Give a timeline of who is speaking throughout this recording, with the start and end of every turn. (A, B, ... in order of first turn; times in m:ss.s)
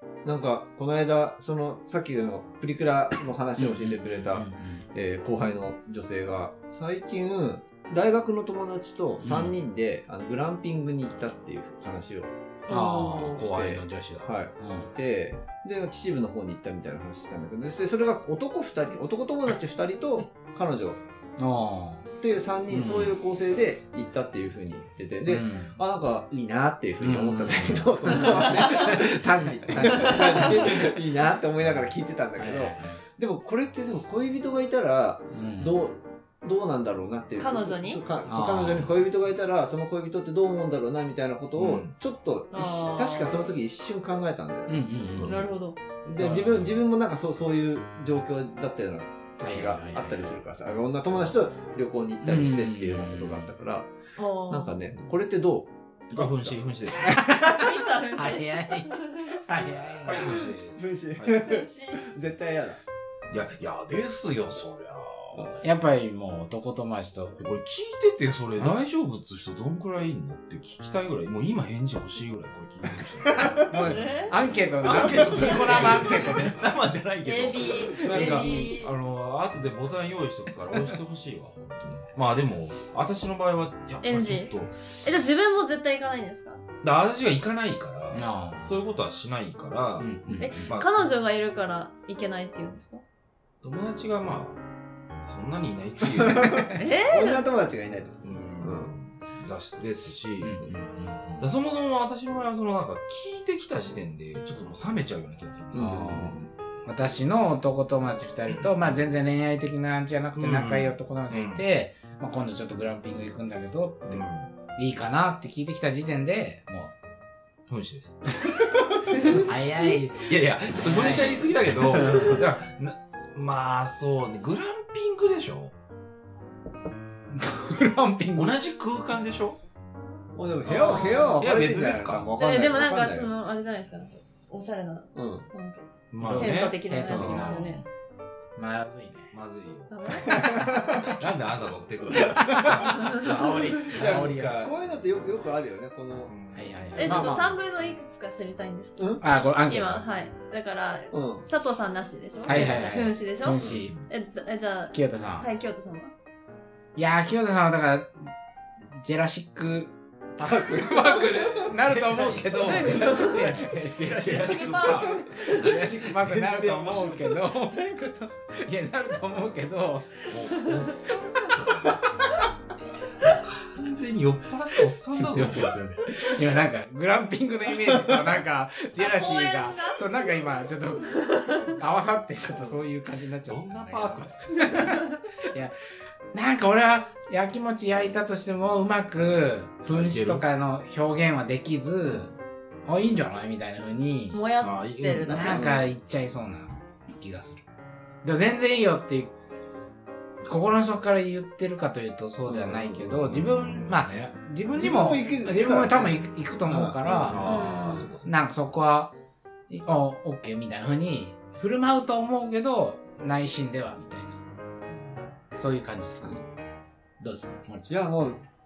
0:00.2-0:12.3 A
0:03.6-0:04.9 B
0:09.2-0:09.6 B
0:12.7-0:13.4 C
0:12.7-0:14.9 B
0:13.0-0:21.0 A
0:21.4-0:22.1 B
0:22.2-0:45.4 A
0:22.7-0:23.2 B
0:25.2-0:25.8 B
0:27.0-0:30.8 B
0:29.9-0:30.4 C
0:32.4-0:33.0 B
0:35.3-0:35.8 B
0:37.4-0:38.0 C
0:38.3-0:38.9 B
0:41.6-0:41.9 D
0:42.5-0:43.4 C
0:44.7-0:45.5 B
0:45.2-0:45.8 C
0:46.1-0:53.9 A
0:46.2-0:46.7 D
0:49.4-0:50.3 B
0:52.2-0:53.5 B
0:54.2-0:54.8 C
0:54.5-0:56.6 A
0:56.1-0:57.2 D
0:57.0-1:00.5 B
0:57.4-0:59.4 C
1:00.0-1:01.5 D
1:00.1-1:02.8 A
1:01.3-1:02.0 C
1:03.3-1:05.6 D
1:05.6-1:07.4 B
1:07.4-1:13.8 D
1:13.3-1:13.6 A
1:13.4-1:16.7 B
1:13.8-1:14.4 C
1:14.8-1:24.7 D
1:15.3-1:16.0 C
1:17.2-1:18.9 C
1:18.0-1:18.8 B
1:24.0-1:26.6 C
1:26.8-1:30.9 D
1:28.1-1:28.8 B
1:30.0-1:30.7 B
1:30.4-1:33.0 C
1:33.6-1:34.6 D
1:35.3-1:36.7 D
1:36.2-1:38.9 A
1:36.7-1:37.5 C
1:38.2-1:40.6 D
1:40.4-1:41.5 B
1:41.4-1:46.0 D
1:45.7-1:46.5 A
1:45.7-1:54.2 B
1:48.5-1:49.0 D
1:50.4-1:51.6 D
1:54.1-1:54.5 D
1:54.8-1:57.0 B
1:57.7-1:58.3 D
1:59.1-2:00.0 C
1:59.4-2:01.6 B
2:00.2-2:05.7 D
2:01.9-2:02.4 A
2:07.3-2:08.6 B
2:08.4-2:09.6 D
2:10.4-2:13.3 A
2:10.7-2:11.4 C
2:10.8-2:12.3 D
2:12.4-2:17.8 C
2:15.2-2:15.5 A
2:16.1-2:16.8 D
2:16.2-2:17.8 B
2:17.1-2:17.5 A
2:18.6-2:19.3 B
2:19.3-2:24.5 D
2:19.9-2:20.4 C
2:20.3-2:21.2 A
2:20.3-2:21.2 B
2:22.2-2:22.7 A
2:22.2-2:24.7 B
2:23.4-2:26.3 A
2:26.3-2:27.4 D
2:26.5-2:27.6 B
2:27.0-2:29.0 C
2:29.0-2:29.2 A
2:29.2-2:30.0 B
2:29.7-2:36.1 C
2:31.1-2:31.4 A
2:32.5-2:34.0 B
2:32.5-2:34.0 D
2:34.9-2:35.5 B
2:37.0-2:38.3 B
2:39.0-2:50.3 B
2:40.4-2:41.5 A
2:41.8-2:47.4 D
2:42.6-2:43.6 C
2:44.4-2:45.6 C
2:50.3-2:52.2 D
2:53.2-2:55.8 D
2:55.1-3:05.8 B
2:59.0-3:00.2 C
3:01.1-3:01.7 C
3:03.5-3:04.7 D
3:06.3-3:12.3 B
3:09.9-3:10.4 D
3:12.9-3:14.4 B
3:14.3-3:15.6 C
3:14.6-3:15.6 D
3:15.3-3:17.6 B
3:15.5-3:15.8 A
3:18.2-3:19.4 B
3:20.4-3:27.7 B
3:22.9-3:24.3 D
3:24.8-3:27.7 A
3:27.3-3:28.3 D
3:27.4-3:28.1 C
3:28.2-3:29.1 B
3:29.7-3:34.4 B
3:35.6-3:36.4 B
3:37.2-3:37.9 B
3:37.9-3:38.4 A